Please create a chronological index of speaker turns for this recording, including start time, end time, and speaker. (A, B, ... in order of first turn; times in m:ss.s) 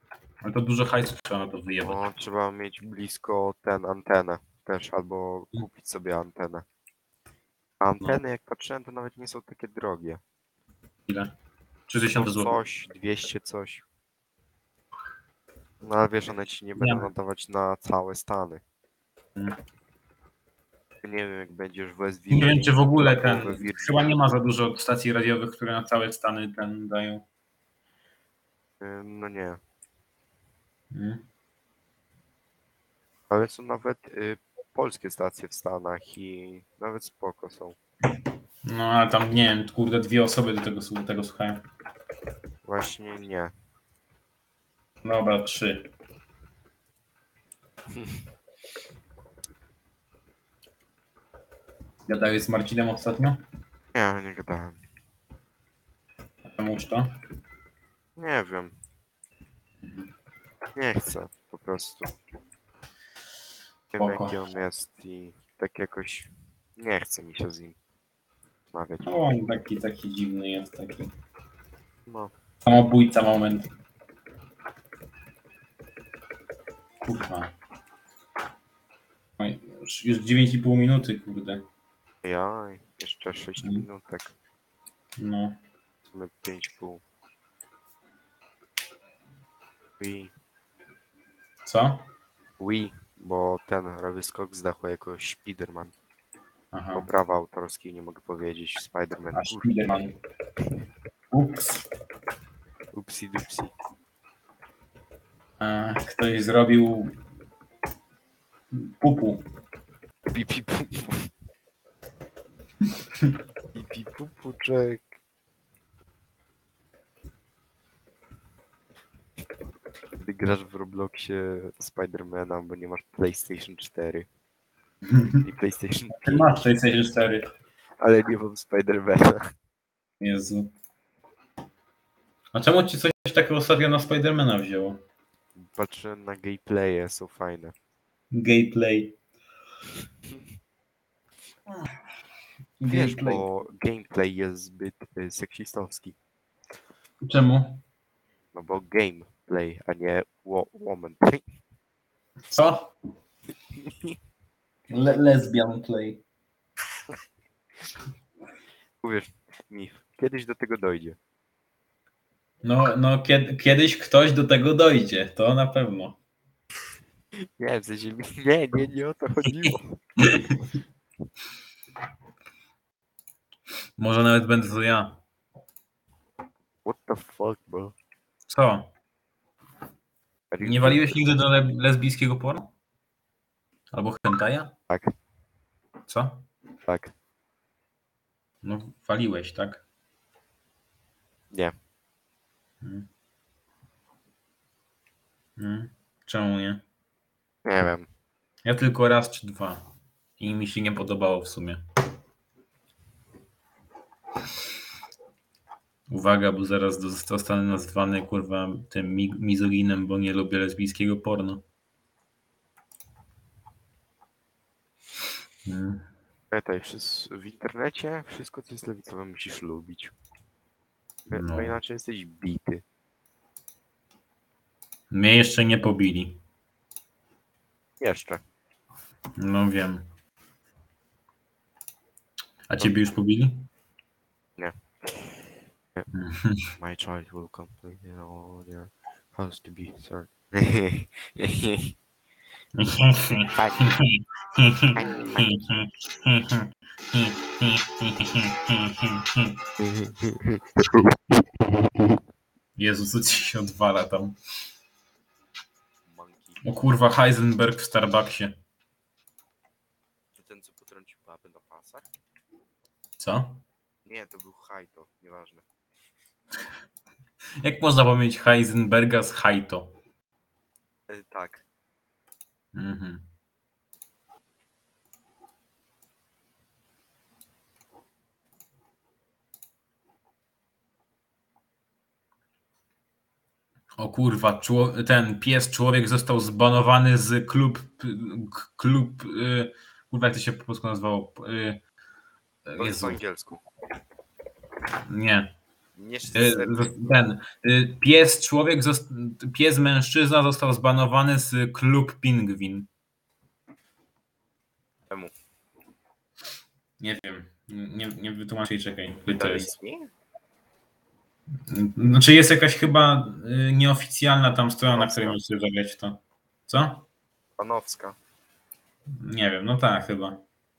0:00.4-0:02.0 A
0:01.8-0:06.6 B
0:07.8-0:10.2 B
0:11.1-0:11.3 A
0:11.9-0:12.6 A
0:12.2-0:13.8 B
0:15.8-0:18.6 B
0:16.8-0:17.1 A
0:21.0-0:24.3 B
0:22.3-0:27.2 A
0:28.8-0:29.6 B
0:30.9-0:31.2 A
0:33.3-0:37.8 B
0:38.6-0:41.6 A
0:42.6-0:43.5 B
0:45.0-0:45.9 A
0:47.9-0:48.2 B
0:52.1-0:53.4 A
0:53.9-0:54.8 B
0:56.5-0:57.1 A
0:58.2-0:58.8 B
1:00.8-1:02.1 B
1:03.9-1:07.8 B
1:04.0-1:04.4 A
1:08.7-1:09.1 B
1:09.0-1:11.1 A
1:12.1-1:12.3 B
1:12.6-1:13.7 A
1:17.0-1:17.5 A
1:19.4-1:21.6 A
1:22.2-1:24.3 B
1:23.6-1:23.8 A
1:25.2-1:25.6 A
1:26.1-1:27.0 B
1:30.0-1:30.3 B
1:31.6-1:32.1 A
1:32.6-1:35.9 B
1:36.7-1:37.1 A
1:36.9-1:39.7 B
1:39.3-1:40.1 A
1:41.3-1:41.8 A
1:42.9-1:43.7 B
1:45.6-1:47.2 A
1:48.8-1:49.4 A
1:50.3-1:51.3 B
1:53.7-1:55.1 B
2:00.2-2:04.3 B
2:05.1-2:05.4 A
2:05.4-2:06.7 B
2:06.1-2:07.5 A
2:08.0-2:09.4 B
2:10.2-2:10.7 A
2:12.5-2:15.0 A
2:15.6-2:17.7 B
2:18.3-2:19.1 A
2:22.8-2:23.4 A
2:22.9-2:26.2 B
2:27.2-2:27.8 A
2:28.5-2:31.4 B
2:32.5-2:32.9 A
2:34.9-2:36.2 A
2:39.0-2:41.2 B
2:42.6-2:46.2 A
2:47.6-2:50.0 B
2:54.0-2:55.2 A
2:56.8-2:57.9 B
2:58.5-2:58.9 A
3:00.5-3:01.4 B
3:00.6-3:02.7 A
3:03.9-3:04.8 A
3:06.1-3:06.5 A
3:06.9-3:07.1 B
3:08.6-3:09.8 A
3:12.8-3:13.1 A
3:15.6-3:16.8 A
3:17.6-3:18.1 B
3:18.6-3:19.9 A
3:20.4-3:21.8 A
3:26.1-3:31.6 A
3:35.6-3:36.0 A
3:36.5-3:40.1 B
3:41.3-3:42.8 B
3:41.3-3:41.8 A
3:45.1-3:46.4 A
3:48.0-3:48.4 B
3:49.4-3:50.0 A
3:52.7-3:53.7 A
3:54.6-3:55.4 B
3:56.1-3:56.7 A
3:56.8-4:01.9 B
4:02.7-4:09.5 A
4:03.6-4:03.9 B
4:04.9-4:05.5 B
4:09.8-4:11.9 B
4:12.8-4:14.4 A
4:16.0-4:16.6 B
4:16.6-4:18.6 A
4:20.3-4:22.0 B
4:23.2-4:23.6 A
4:24.0-4:25.6 B
4:27.6-4:29.9 A
4:31.1-4:31.6 B
4:32.7-4:33.2 A
4:44.0-4:51.8 A
4:52.7-4:53.2 A
4:52.8-4:53.6 B
4:55.1-4:55.5 A
4:56.0-4:57.0 B
4:56.3-5:02.9 A
5:07.0-5:09.7 A
5:09.3-5:10.1 B
5:11.7-5:17.0 A
5:14.9-5:15.4 B
5:17.6-5:18.2 B
5:19.2-5:20.4 A